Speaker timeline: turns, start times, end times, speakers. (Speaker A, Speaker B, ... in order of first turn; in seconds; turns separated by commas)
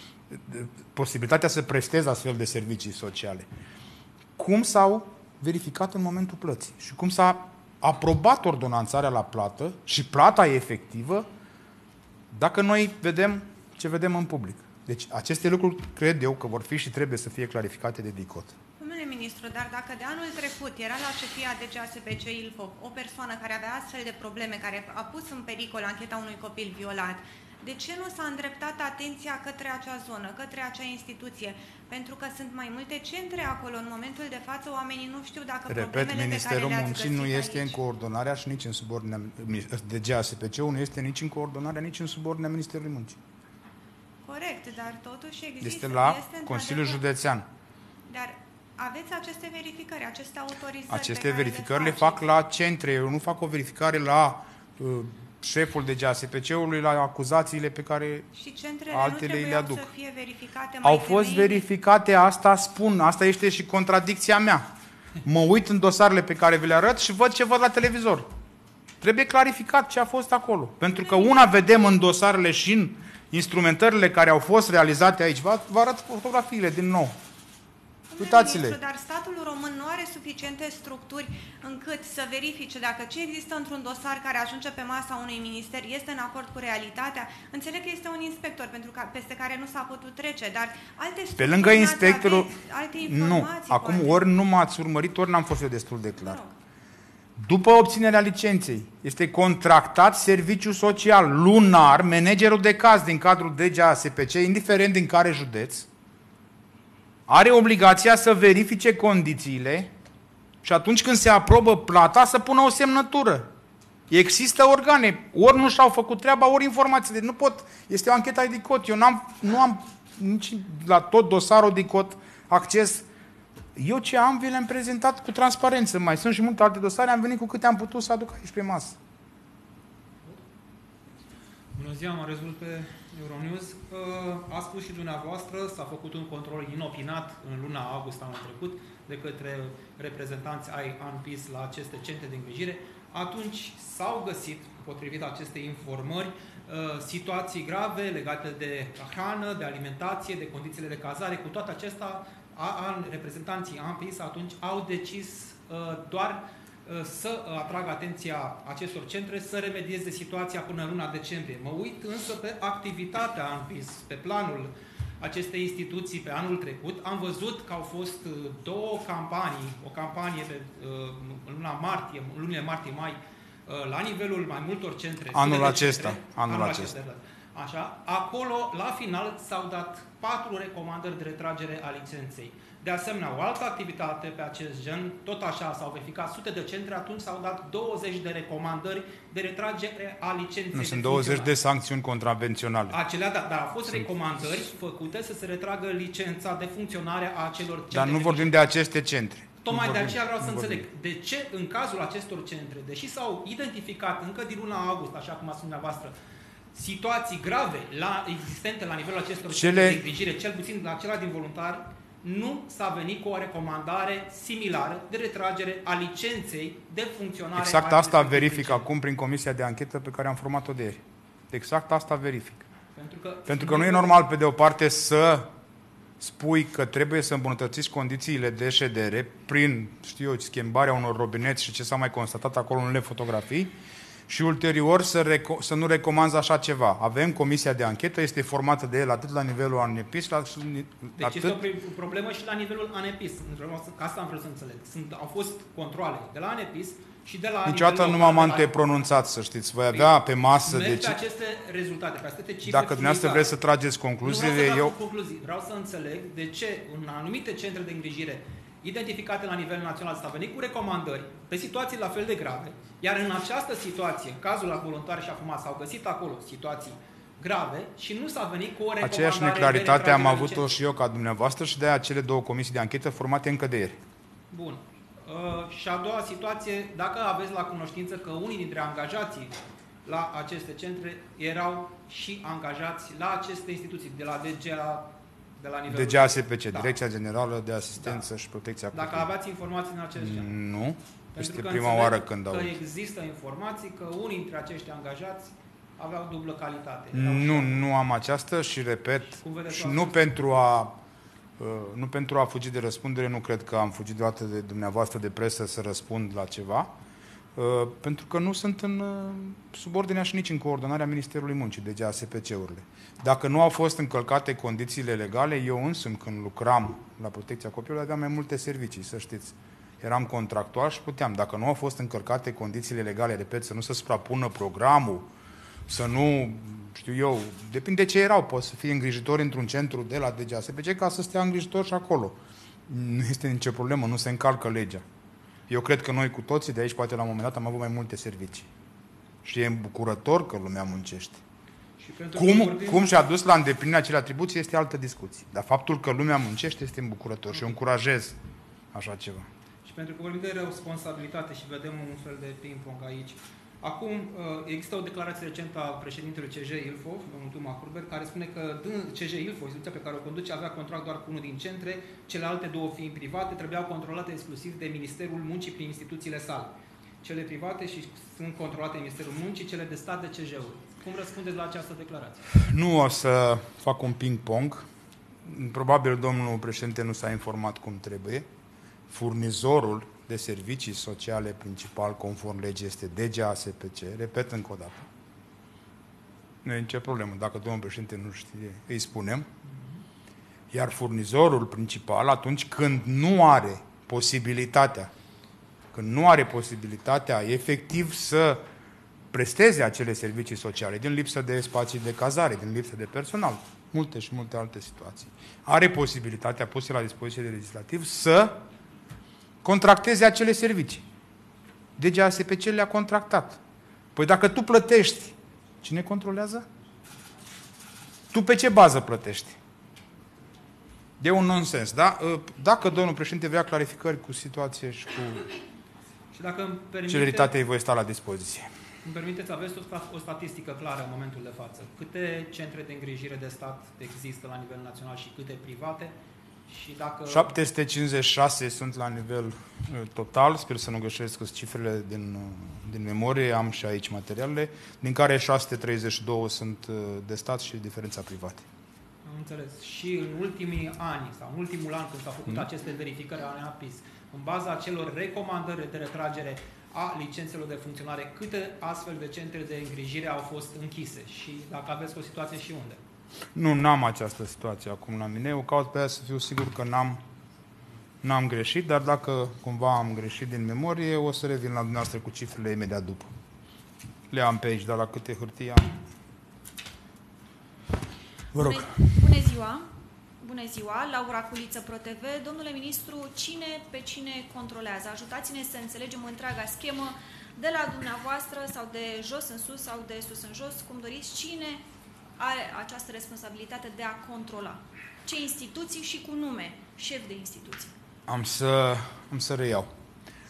Speaker A: 0.3-3.5, Speaker A: 4.3-11.3, Speaker A: 12.3-18.5, Speaker B: 18.8-37.8, Speaker A: 35.7-43.2, Speaker B: 44.2-47.1, Speaker A: 45.6-47.5, Speaker B: 48.1-52.3, Speaker A: 50.9-58.3, Speaker B: 58.3-61.6, Speaker A: 58.9-59.8, Speaker A: 60.8-64.7, Speaker A: 65.2-68.3, Speaker A: 69.0-77.1, Speaker B: 78.1-94.3, Speaker A: 78.2-78.8, Speaker A: 91.3-96.4, Speaker B: 96.2-96.5, Speaker A: 97.4-105.9, Speaker A: 107.3-109.9, Speaker A: 110.6-113.5, Speaker A: 114.1-123.1, Speaker A: 123.8-129.0, Speaker C: 131.7-191.5, Speaker A: 175.3-176.9, Speaker A: 190.7-193.0, Speaker C: 192.9-198.5, Speaker A: 197.9-200.8, Speaker C: 199.6-206.1, Speaker C: 206.7-218.9, Speaker A: 209.5-210.0, Speaker A: 217.5-222.7, Speaker C: 222.9-224.2, Speaker A: 223.4-225.5, Speaker A: 226.2-233.7, Speaker A: 234.3-241.6, Speaker C: 241.2-249.0, Speaker A: 247.6-251.2, Speaker C: 249.9-253.5, Speaker A: 252.6-254.9, Speaker C: 254.2-270.7, Speaker A: 269.0-274.0, Speaker C: 274.5-287.0, Speaker A: 285.9-289.3, Speaker C: 288.0-288.2, Speaker C: 288.9-290.5, Speaker A: 290.1-292.7, Speaker C: 291.3-297.8, Speaker A: 297.1-301.0, Speaker C: 299.4-300.3, Speaker A: 301.6-306.9, Speaker A: 307.6-325.3, Speaker A: 325.9-335.0, Speaker A: 335.7-338.7, Speaker A: 339.4-341.4, Speaker C: 342.0-343.0, Speaker A: 342.3-348.4, Speaker A: 348.9-349.5, Speaker C: 349.8-372.4, Speaker A: 372.5-374.9, Speaker A: 375.4-378.5, Speaker A: 379.1-385.1, Speaker A: 386.6-389.5, Speaker A: 390.7-395.1, Speaker A: 395.9-398.6, Speaker A: 399.3-408.6, Speaker A: 409.6-411.0, Speaker A: 412.0-413.6, Speaker A: 414.1-416.6, Speaker A: 418.3-419.6, Speaker A: 421.2-425.4, Speaker C: 426.3-427.5, Speaker A: 427.1-428.7, Speaker C: 429.0-436.1, Speaker C: 436.7-437.5, Speaker A: 437.3-448.6, Speaker C: 449.2-463.0, Speaker A: 463.5-467.2, Speaker A: 468.2-473.3, Speaker A: 474.3-476.0, Speaker A: 478.5-479.2, Speaker D: 478.5-479.9, Speaker D: 480.4-491.8, Speaker D: 492.4-497.9, Speaker A: 498.3-499.9